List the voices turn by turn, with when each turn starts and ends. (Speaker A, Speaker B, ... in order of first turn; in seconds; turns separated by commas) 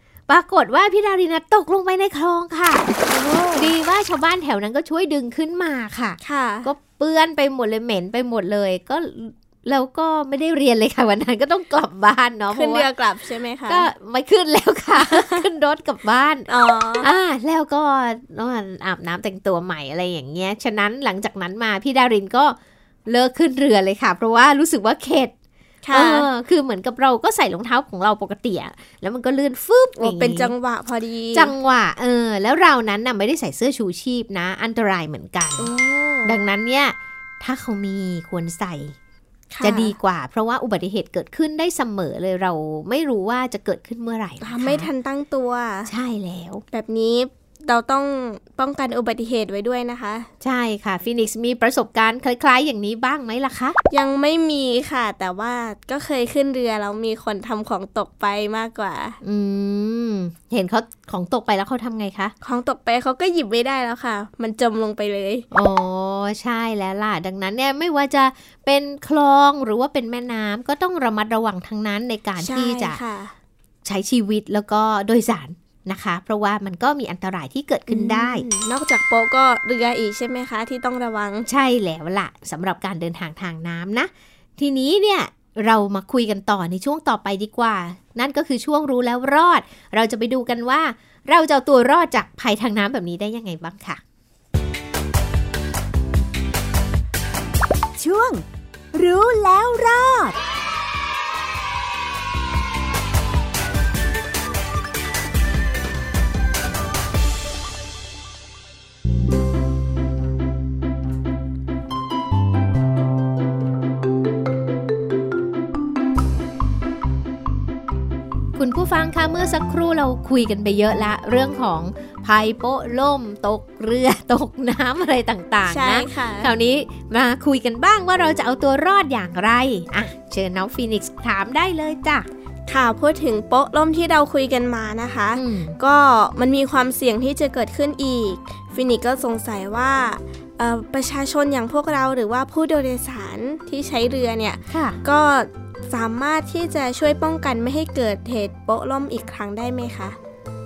Speaker A: 0.3-2.9, Speaker B: 3.1-3.7, Speaker A: 3.5-12.9, Speaker B: 6.2-6.7, Speaker B: 12.5-13.9, Speaker A: 13.7-16.5, Speaker B: 15.0-15.4, Speaker B: 16.5-17.1, Speaker A: 17.0-25.3, Speaker B: 25.8-26.3, Speaker A: 25.9-30.5, Speaker B: 30.0-31.5, Speaker A: 31.3-35.7, Speaker B: 35.6-36.4, Speaker A: 36.2-39.0, Speaker B: 39.5-39.9, Speaker A: 39.6-44.9, Speaker B: 44.4-45.9, Speaker A: 45.9-46.6, Speaker B: 46.7-50.3, Speaker A: 50.4-53.8, Speaker B: 53.9-59.2, Speaker A: 59.2-62.3, Speaker B: 62.4-65.4, Speaker A: 65.5-73.0, Speaker B: 72.4-73.3, Speaker A: 73.8-78.5, Speaker B: 77.9-81.5, Speaker A: 81.5-94.0, Speaker C: 98.0-100.4, Speaker A: 118.5-132.3, Speaker B: 125.7-126.5, Speaker B: 132.7-150.2, Speaker A: 135.3-135.8, Speaker A: 144.7-145.0